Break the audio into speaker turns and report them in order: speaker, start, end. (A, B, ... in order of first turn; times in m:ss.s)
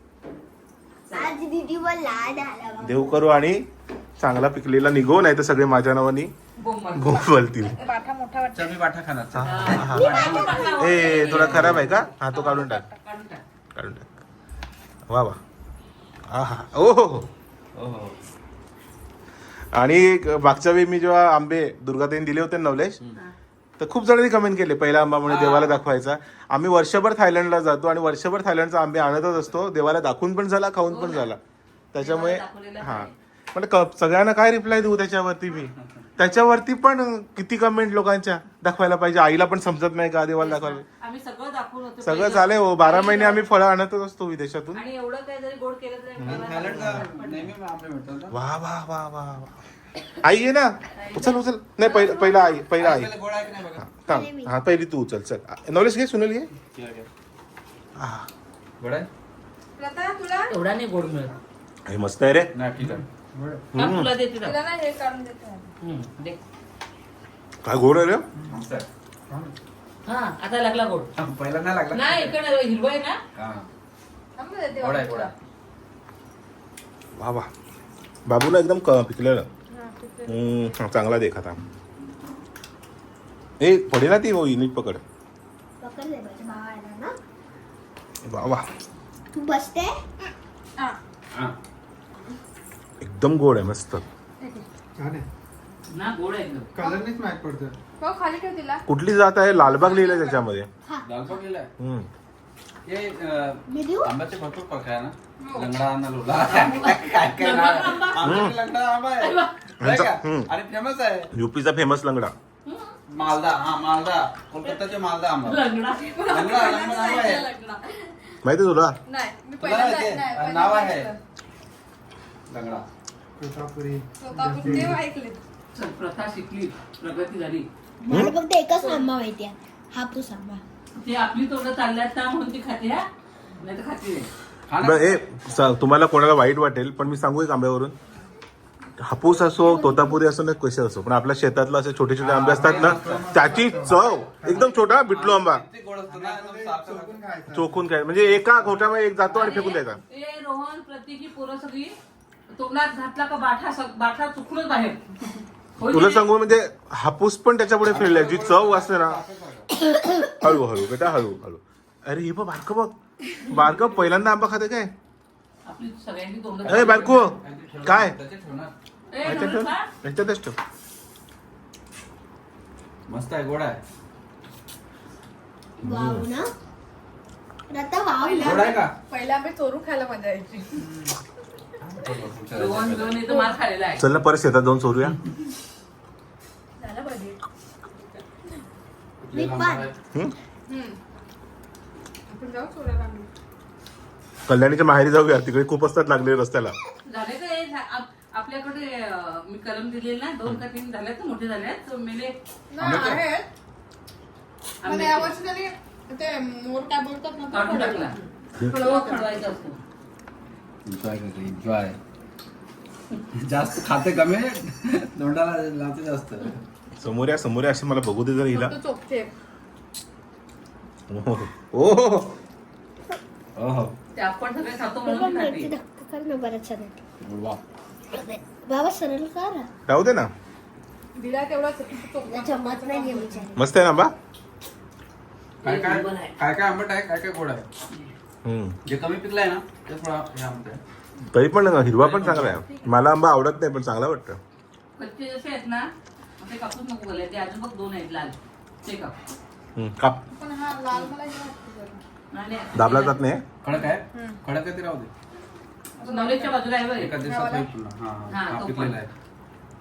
0:01.0-0:01.4 A
0:01.1-0:03.2 B
0:02.8-0:03.7 C
0:04.2-0:06.3 C
0:06.6-0:07.3 A
0:06.9-0:07.8 C
0:07.8-0:08.7 D
0:08.5-0:12.0 E
0:09.4-0:12.8 C
0:09.4-0:13.4 A
0:13.8-0:14.0 C
0:15.1-0:15.4 C
0:16.3-0:17.3 C
0:17.7-0:18.2 E
0:19.7-0:23.0 C
0:23.8-0:31.4 C
0:25.2-0:25.8 E
0:30.9-0:31.3 A
0:31.9-0:40.8 C
0:32.0-0:33.1 A
0:40.4-0:43.4 A
0:42.0-0:44.8 C
0:44.8-0:47.4 A
0:46.2-0:47.1 C
0:46.2-0:48.4 E
0:48.3-0:49.6 C
0:50.2-0:53.1 C
0:51.0-0:52.3 A
0:52.8-0:54.0 E
0:53.8-0:56.5 C
0:54.1-0:54.6 B
0:56.7-0:57.1 E
0:58.0-0:58.3 C
0:58.8-0:59.1 E
0:59.8-1:00.5 D
1:00.5-1:01.4 A
1:01.9-1:02.5 C
1:02.5-1:03.7 E
1:03.7-1:04.1 C
1:03.8-1:04.6 A
1:04.4-1:05.7 D
1:05.8-1:06.4 A
1:07.6-1:08.2 C
1:08.4-1:09.5 E
1:10.1-1:11.1 A
1:11.2-1:12.4 E
1:11.9-1:13.2 A
1:13.4-1:13.7 E
1:14.4-1:15.3 D
1:14.8-1:15.3 E
1:17.2-1:17.5 C
1:18.2-1:19.5 C
1:19.7-1:20.5 D
1:20.3-1:21.6 C
1:23.6-1:25.0 C
1:25.8-1:27.2 B
1:28.2-1:28.7 C
1:29.3-1:30.0 B
1:33.0-1:34.0 C
1:35.9-1:36.7 A
1:36.8-1:37.7 F
1:36.8-1:37.5 E
1:38.0-1:38.8 D
1:38.9-1:40.7 C
1:39.6-1:40.4 D
1:41.0-1:41.7 E
1:41.8-1:42.1 C
1:42.9-1:51.3 E
1:43.7-1:44.1 B
1:45.4-1:45.8 D
1:46.5-1:48.4 A
1:48.2-1:48.6 C
1:49.2-1:49.6 A
1:49.8-1:50.5 C
1:51.3-1:52.3 C
1:52.6-1:52.9 A
1:53.1-1:55.6 E
1:55.4-1:56.6 A
1:56.0-1:58.1 D
1:56.3-1:57.5 E
1:58.4-1:59.0 C
1:59.1-2:01.2 D
1:59.6-2:01.1 E
2:02.5-2:02.9 E
2:03.4-2:05.0 F
2:04.2-2:05.4 D
2:04.6-2:04.9 E
2:05.7-2:07.7 A
2:08.0-2:10.6 B
2:08.8-2:09.0 A
2:11.0-2:14.3 A
2:14.7-2:15.2 E
2:14.8-2:18.0 C
2:19.0-2:25.7 C
2:19.6-2:20.2 B
2:22.2-2:27.4 E
2:22.5-2:24.6 F
2:26.1-2:27.8 F
2:27.5-2:30.0 C
2:29.3-2:32.0 A
2:32.5-2:35.0 A
2:35.8-2:36.2 A
2:35.9-2:39.2 C
2:37.8-2:39.7 E
2:40.3-2:44.9 C
2:45.6-2:47.3 A
2:46.6-2:48.7 E
2:46.7-2:48.2 C
2:49.1-2:49.9 A
2:49.2-2:50.6 C
2:53.1-2:53.8 E
2:55.8-2:56.5 B
2:55.8-2:56.2 C
2:57.7-2:58.7 B
2:58.2-3:00.8 D
2:58.4-2:59.0 E
3:00.8-3:01.1 E
3:01.8-3:03.2 E
3:02.5-3:04.0 A
3:03.2-3:03.6 D
3:04.0-3:05.2 C
3:06.8-3:07.4 D
3:09.2-3:10.0 E
3:09.3-3:09.9 B
3:10.7-3:11.0 D
3:12.3-3:13.3 D
3:14.5-3:16.8 C
3:17.1-3:22.4 A
3:22.7-3:23.5 D
3:22.8-3:23.3 E
3:24.8-3:25.3 A
3:24.8-3:29.4 D
3:27.5-3:28.2 A
3:28.7-3:29.8 A
3:30.9-3:32.0 E
3:33.4-3:36.6 E
3:37.0-3:38.7 C
3:38.5-3:39.3 D
3:41.1-3:42.3 C
3:43.6-3:43.9 E
3:44.2-3:45.7 A
3:45.0-3:47.0 B
3:47.2-3:47.6 E
3:48.1-3:49.7 B
3:49.9-3:50.3 C
3:51.2-3:53.5 D
3:52.2-3:53.6 B
3:53.6-3:54.1 C
3:55.6-3:56.4 A
3:55.6-3:57.6 E
3:58.4-3:58.8 C
3:58.9-4:00.8 E
4:01.3-4:04.4 C
4:02.0-4:02.6 E
4:05.0-4:09.2 A
4:09.8-4:10.2 C
4:10.3-4:12.0 D
4:12.3-4:13.2 A
4:12.7-4:13.4 C
4:13.6-4:15.1 E
4:14.1-4:14.4 D
4:16.0-4:16.6 D
4:16.1-4:17.2 A
4:17.0-4:19.1 E
4:17.2-4:17.7 D
4:18.3-4:19.0 A